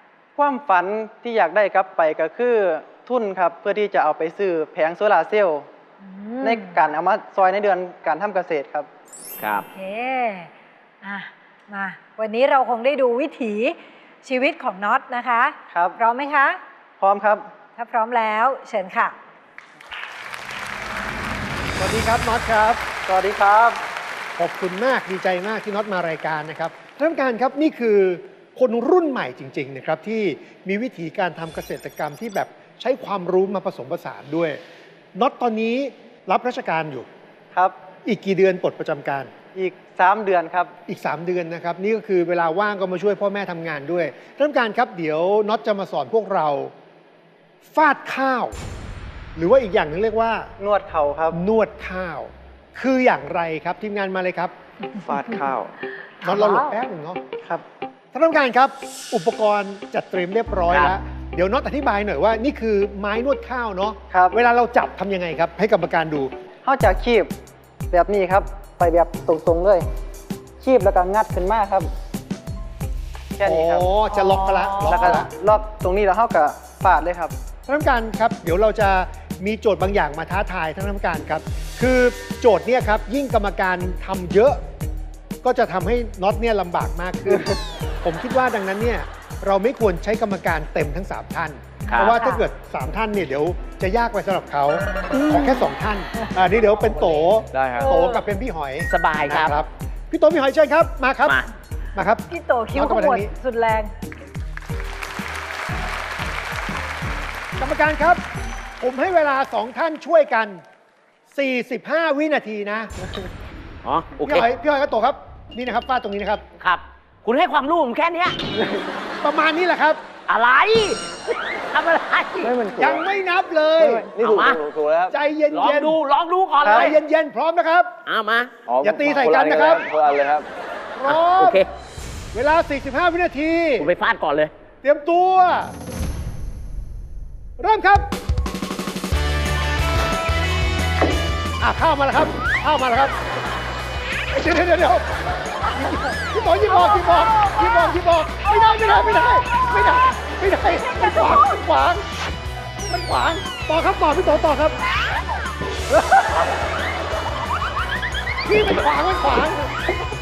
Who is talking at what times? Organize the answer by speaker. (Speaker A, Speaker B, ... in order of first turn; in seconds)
Speaker A: 0.4-5.7, 6.4-8.9, 15.7-16.0, 17.0-17.5, 23.1-23.8, 39.5-40.7, 50.6-51.4, 64.1-64.4, 66.7-67.3, 67.9-69.9, 70.6-71.9, 73.4-73.9, 74.8-77.3, 126.6-127.0
Speaker B: 6.0-6.8, 9.7-10.5, 11.0-16.6, 17.8-19.1, 56.2-56.7, 74.1-75.2, 91.9-92.5, 96.2-98.3, 102.3-103.9, 146.7-147.9
Speaker C: 9.4-9.7, 60.7-61.0, 91.9-92.2, 95.1-95.6, 98.9-99.6, 101.2-101.5, 113.8-114.5, 116.6-118.4, 120.3-122.5, 124.2-124.6, 125.5-127.0, 128.1-128.6, 131.1-131.7, 133.8-134.5
Speaker D: 21.8-22.8, 24.4-34.6, 35.1-37.1, 38.0-39.3, 40.9-46.7, 47.6-48.6, 49.4-50.5, 51.3-54.5, 56.2-57.2, 58.1-66.3, 73.4-75.3, 77.7-84.6, 85.4-101.4, 102.0-103.3, 107.6-108.2, 108.8-110.6, 111.3-112.9, 114.2-116.4, 119.2-120.0, 122.8-124.1, 125.1-126.0, 126.6-127.9, 128.8-129.9, 131.0-131.6, 132.3-133.9, 134.8-135.8, 137.6-138.1, 141.6-143.1, 144.3-145.1, 145.7-152.1, 152.9-154.8, 158.4-159.7
Speaker E: 55.0-55.7, 97.5-97.9, 122.4-123.0, 123.8-125.2, 128.7-130.5